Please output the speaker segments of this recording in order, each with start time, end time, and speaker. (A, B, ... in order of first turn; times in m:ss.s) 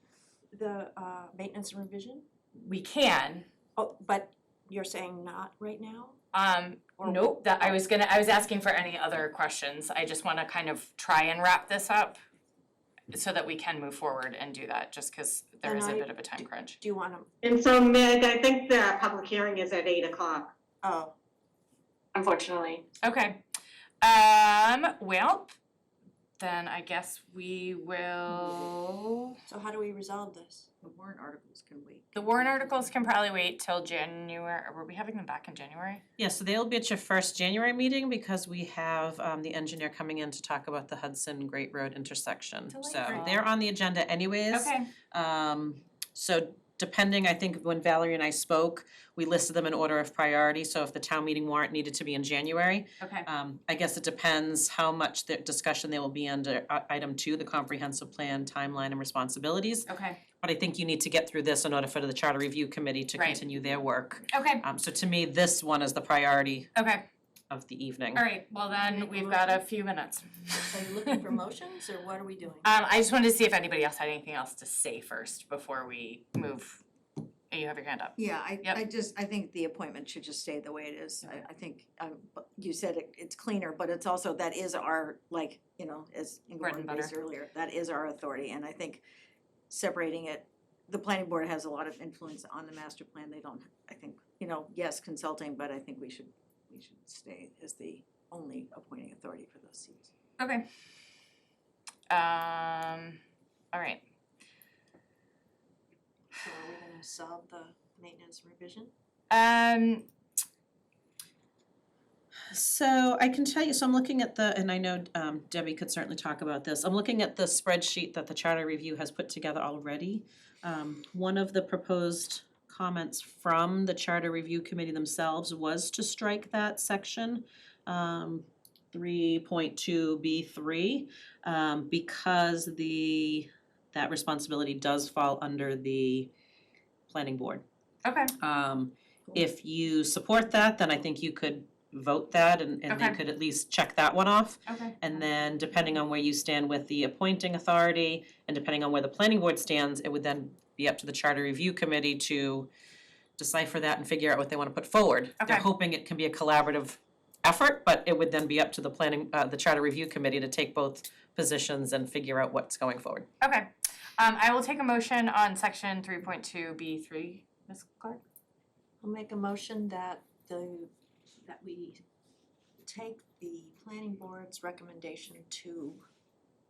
0:00.5-0:02.2 A
0:02.6-0:03.5 B
0:03.8-0:06.2 A
0:06.3-0:12.2 B
0:07.0-0:07.8 A
0:13.1-0:16.8 B
0:15.6-0:17.3 A
0:17.4-0:20.5 C
0:20.8-0:21.1 A
0:22.1-0:22.8 C
0:23.0-0:23.4 B
0:24.0-0:25.6 B
0:26.4-0:29.4 B
0:28.3-0:28.7 D
0:29.5-0:30.7 A
0:30.8-0:32.9 D
0:32.1-0:36.0 B
0:36.2-0:59.9 E
0:42.7-0:43.4 B
0:44.5-0:44.9 B
0:53.0-0:53.3 B
0:59.9-1:00.2 B
1:00.4-1:06.7 E
1:03.2-1:03.4 B
1:04.3-1:04.6 B
1:06.8-1:07.0 B
1:07.5-1:08.2 E
1:08.2-1:10.9 B
1:08.7-1:09.6 A
1:10.7-1:12.7 A
1:12.6-1:16.8 B
1:17.5-1:18.8 B
1:18.2-1:29.0 D
1:26.6-1:27.1 B
1:29.7-1:40.1 D
1:40.4-1:40.7 B
1:42.1-1:43.2 B
1:43.7-1:44.0 B
1:46.4-1:48.9 A
1:49.3-1:50.1 B
1:52.5-2:16.3 E
2:17.1-2:17.6 E
2:18.0-2:18.3 B
2:18.4-2:32.7 E
2:22.9-2:23.2 B
2:24.7-2:25.0 B
2:33.4-2:43.3 E
2:35.4-2:35.7 B
2:43.4-2:48.2 B
2:49.0-2:50.9 A
2:51.4-2:52.0 A
2:52.8-2:56.0 A